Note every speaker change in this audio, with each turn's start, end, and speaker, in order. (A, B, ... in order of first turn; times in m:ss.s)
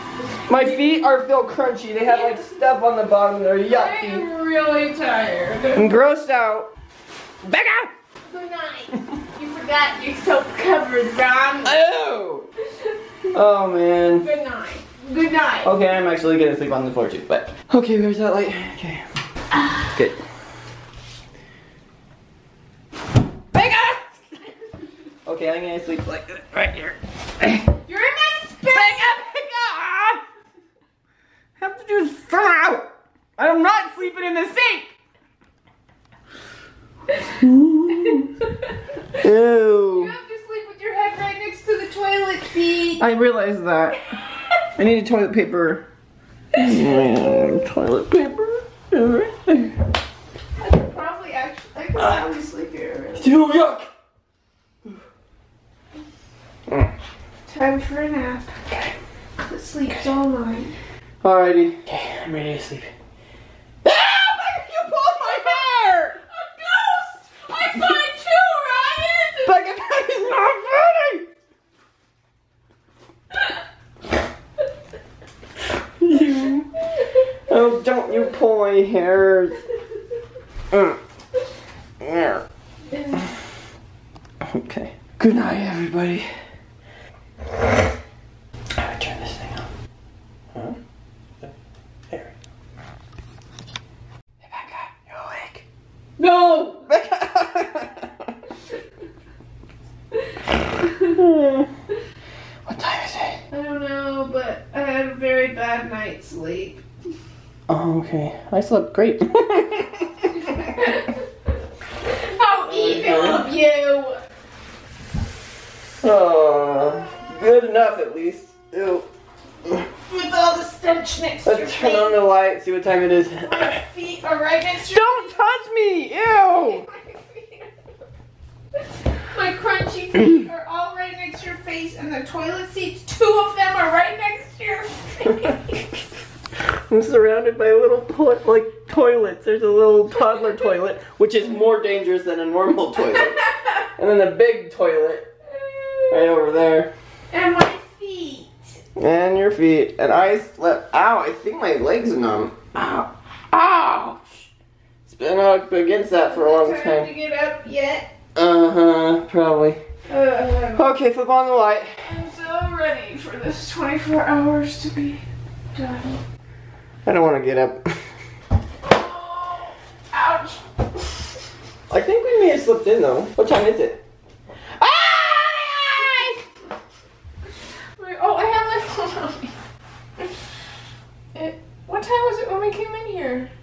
0:00.5-0:04.2 A
0:02.1-0:02.6 B
0:03.7-0:05.9 B
0:05.7-0:06.7 A
0:07.4-0:07.9 A
0:08.2-0:11.8 B
0:11.6-0:12.5 A
0:13.3-0:14.3 A
0:14.2-0:15.7 B
0:15.6-0:19.0 A
0:19.6-0:19.9 B
0:19.9-0:20.2 A
0:23.5-0:24.2 A
0:25.2-0:27.7 A
0:27.8-0:29.2 B
0:28.7-0:30.2 A
0:31.6-0:34.9 A
0:37.4-0:38.3 A
0:38.0-0:38.8 B
0:39.1-0:40.1 A
0:39.9-0:43.1 B
0:43.0-0:44.0 A
0:44.7-0:45.8 A
0:46.5-0:49.8 A
0:50.6-0:53.3 B
0:53.2-0:53.9 A
0:56.7-0:56.9 A
0:57.5-0:58.6 B
0:58.7-0:58.9 A
0:59.4-1:00.7 B
1:01.2-1:02.9 A
1:03.8-1:06.2 A
1:06.3-1:09.6 B
1:09.4-1:11.2 A
1:16.0-1:16.7 A
1:17.5-1:19.6 A
1:20.7-1:21.0 A
1:22.0-1:22.4 A
1:22.9-1:23.3 B
1:24.4-1:26.3 A
1:28.8-1:29.7 A
1:34.4-1:35.6 A
1:36.2-1:36.8 B
1:36.8-1:38.3 A
1:41.0-1:41.7 A
1:42.6-1:43.4 A
1:43.5-1:46.8 B
1:47.7-1:50.7 A
1:50.5-1:51.1 B
1:52.1-1:54.2 B
1:52.6-1:53.5 A
1:56.0-1:59.1 A
2:00.1-2:02.2 B
2:01.4-2:03.8 A
2:03.5-2:05.3 B
2:04.8-2:06.8 A
2:06.6-2:07.7 B
2:09.3-2:16.0 B
2:16.7-2:25.2 A
2:25.6-2:26.2 B
2:26.1-2:26.9 A
2:27.3-2:28.8 B
2:29.0-2:33.1 A
2:33.5-2:34.2 B
2:35.1-2:37.1 A
2:36.2-2:38.1 B
2:38.3-2:39.8 A
2:40.1-2:40.9 B
2:40.7-2:42.0 A
2:42.0-2:45.2 B
2:45.7-2:46.2 B
2:47.0-2:48.0 A
2:48.8-2:50.6 B
2:51.9-2:54.0 A
2:54.8-2:56.2 A
2:55.8-2:56.4 B
2:58.0-2:59.5 B
3:01.3-3:03.5 B